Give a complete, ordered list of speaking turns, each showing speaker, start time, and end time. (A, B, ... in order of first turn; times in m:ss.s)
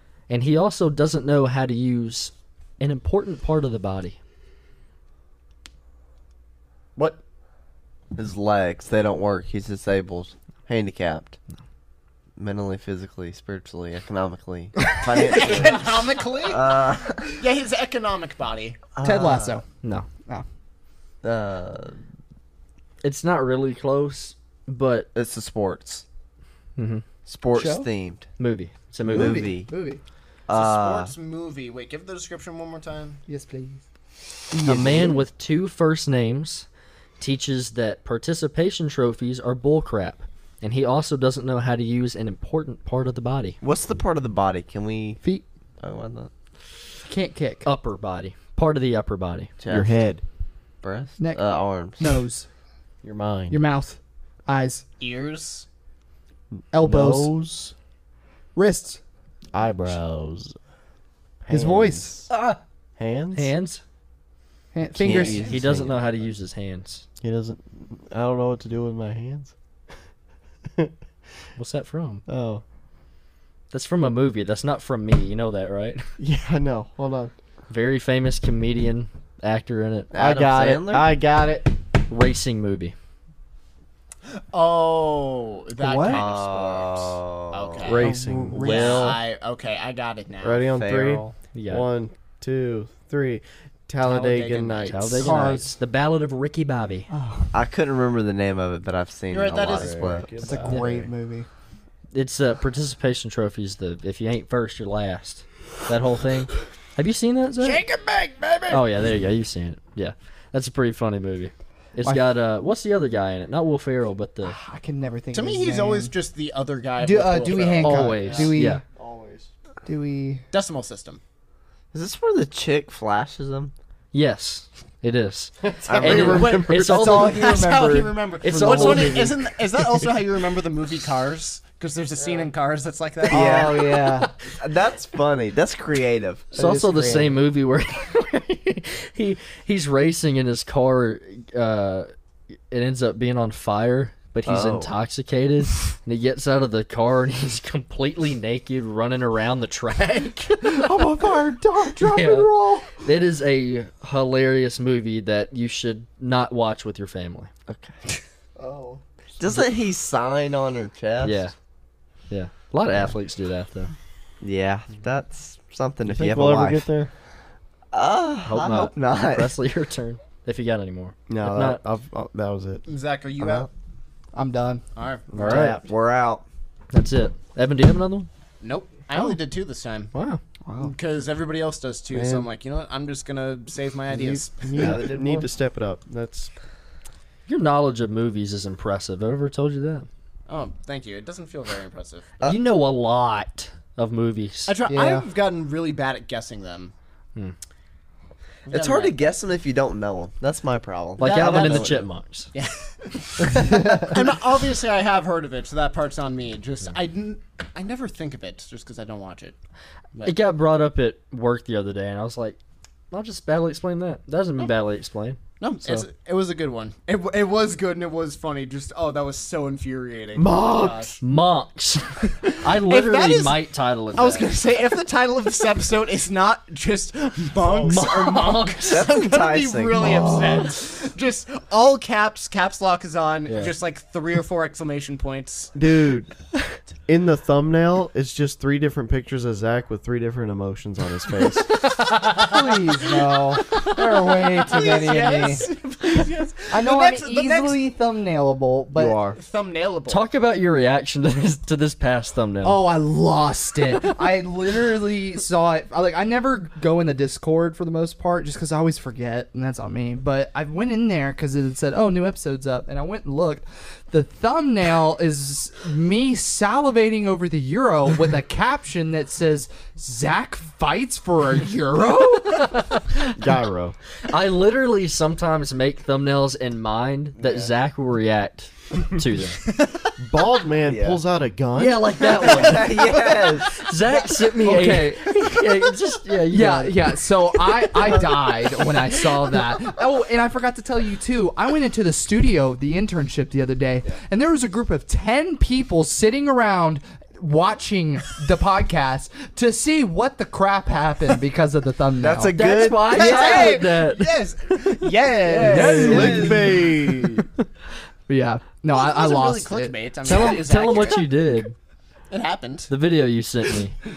0:00.3-0:04.2 A
0:08.1-0:11.4 B
0:12.4-0:17.4 B
0:15.1-0:18.8 C
0:19.0-0:19.6 B
0:19.0-0:19.6 D
0:19.8-0:20.1 A
0:21.2-0:22.0 B
0:23.0-0:25.1 A
0:25.1-0:26.0 B
0:26.8-0:27.0 A
0:27.3-0:28.3 B
0:27.5-0:27.9 D
0:28.4-0:29.6 A
0:29.1-0:29.7 B
0:29.1-0:30.0 D
0:30.5-0:31.1 B
0:30.5-0:33.2 C
0:33.3-0:33.8 D
0:34.6-0:36.7 A
0:34.7-0:35.2 B
0:37.2-0:43.6 A
0:43.6-0:45.2 B
0:45.8-0:46.3 B
0:47.1-0:47.7 D
0:47.6-0:49.6 A
0:49.6-0:49.9 B
0:49.6-0:50.2 E
0:50.8-0:52.2 B
0:51.2-0:52.5 D
0:53.0-0:53.6 E
0:53.5-0:54.8 D
0:55.0-0:55.7 C
0:56.7-0:57.3 D
0:56.8-0:57.7 E
0:58.6-0:59.0 D
0:59.5-1:00.6 E
1:01.4-1:02.3 E
1:01.5-1:02.3 D
1:02.3-1:02.6 A
1:03.0-1:03.5 E
1:03.3-1:03.8 A
1:04.7-1:05.5 D
1:05.0-1:06.0 B
1:05.1-1:05.6 E
1:05.2-1:05.8 C
1:05.3-1:07.0 A
1:07.2-1:09.5 E
1:11.6-1:12.2 A
1:12.3-1:12.6 E
1:13.7-1:16.1 A
1:16.2-1:17.3 E
1:17.7-1:20.1 A
1:20.1-1:21.2 B
1:20.1-1:21.8 E
1:22.1-1:22.9 A
1:24.5-1:30.7 C
1:26.0-1:27.9 B
1:27.8-1:29.2 E
1:28.0-1:29.1 D
1:28.6-1:29.2 A
1:30.4-1:35.6 E
1:30.7-1:31.3 B
1:31.5-1:31.9 A
1:34.0-1:35.4 C
1:34.9-1:37.1 A
1:35.2-1:35.7 D
1:37.1-1:37.5 D
1:37.5-1:40.3 B
1:39.3-1:40.3 C
1:39.7-1:41.1 E
1:40.4-1:41.5 D
1:42.1-1:47.8 A
1:47.6-1:48.9 D
1:48.7-1:54.6 A
1:54.4-1:56.1 D
1:55.3-1:58.2 C
1:57.0-1:58.8 D
1:57.8-1:58.8 A
1:58.2-1:59.5 E
1:59.8-2:00.4 D
2:00.5-2:01.2 C
2:01.9-2:03.7 B
2:04.1-2:07.8 A
2:05.6-2:07.3 E
2:05.9-2:06.3 B
2:06.0-2:13.8 C
2:06.9-2:09.3 D
2:08.4-2:09.4 A
2:13.2-2:14.3 D
2:13.3-2:16.5 B
2:16.5-2:17.4 D
2:16.5-2:22.1 A
2:22.7-2:31.0 A
2:24.5-2:24.9 B
2:30.6-2:33.0 D
2:32.0-2:37.5 A
2:37.7-2:38.0 B
2:38.6-2:39.0 E
2:39.4-2:41.4 B
2:41.2-2:41.5 A
2:42.3-2:43.9 A
2:44.4-2:46.9 B
2:46.0-2:47.1 E
2:47.9-2:49.5 B
2:48.4-2:51.8 A
2:51.3-2:52.9 E
2:52.9-2:53.7 C
2:53.4-2:53.7 B
2:54.3-2:54.8 D
2:55.0-2:55.3 C
2:55.3-2:56.5 B
2:55.4-2:55.8 A
2:55.4-2:55.8 E
2:56.9-2:58.3 A
2:58.6-3:00.1 C
3:00.1-3:00.4 A
3:00.6-3:00.9 D
3:00.8-3:05.0 C
3:02.1-3:02.5 E
3:04.1-3:06.5 E
3:04.7-3:05.5 B
3:07.5-3:10.1 A
3:10.5-3:12.3 C
3:12.4-3:14.8 A
3:14.7-3:16.9 C
3:14.9-3:15.3 D
3:18.7-3:19.2 C
3:18.7-3:22.0 B
3:21.2-3:22.0 C
3:21.2-3:22.5 A
3:22.5-3:29.6 C
3:23.5-3:24.1 D
3:30.2-3:32.6 A
3:33.1-3:36.1 A
3:35.6-3:41.2 C
3:40.6-3:44.6 A
3:42.5-3:43.6 C
3:44.1-3:55.7 C
3:47.6-3:49.1 A
3:48.9-3:50.1 B
3:50.2-3:50.6 D
3:53.5-3:53.7 A
3:55.8-3:56.4 E
3:57.1-4:01.7 E
4:02.0-4:05.7 D
4:02.2-4:02.8 C
4:04.6-4:07.8 C
4:06.7-4:09.2 D
4:09.0-4:09.4 E
4:09.4-4:10.2 C
4:10.1-4:12.8 A
4:12.6-4:32.8 D
4:32.6-4:33.3 A
4:33.4-4:34.0 E
4:34.2-4:39.6 A
4:37.4-4:37.7 B
4:39.7-4:40.1 C
4:40.2-4:42.7 E
4:40.8-4:41.2 B
4:41.7-4:47.2 A
4:42.4-4:43.8 B
4:44.6-4:45.3 D
4:46.5-5:02.6 D
5:02.2-5:03.8 B
5:02.5-5:04.3 A
5:03.1-5:06.4 C
5:05.5-5:06.7 D
5:05.6-5:06.8 B
5:05.6-5:07.5 E
5:05.7-5:06.6 A
5:08.3-5:10.4 D
5:08.9-5:11.3 C
5:10.2-5:11.8 A
5:12.3-5:12.9 C
5:12.9-5:14.0 A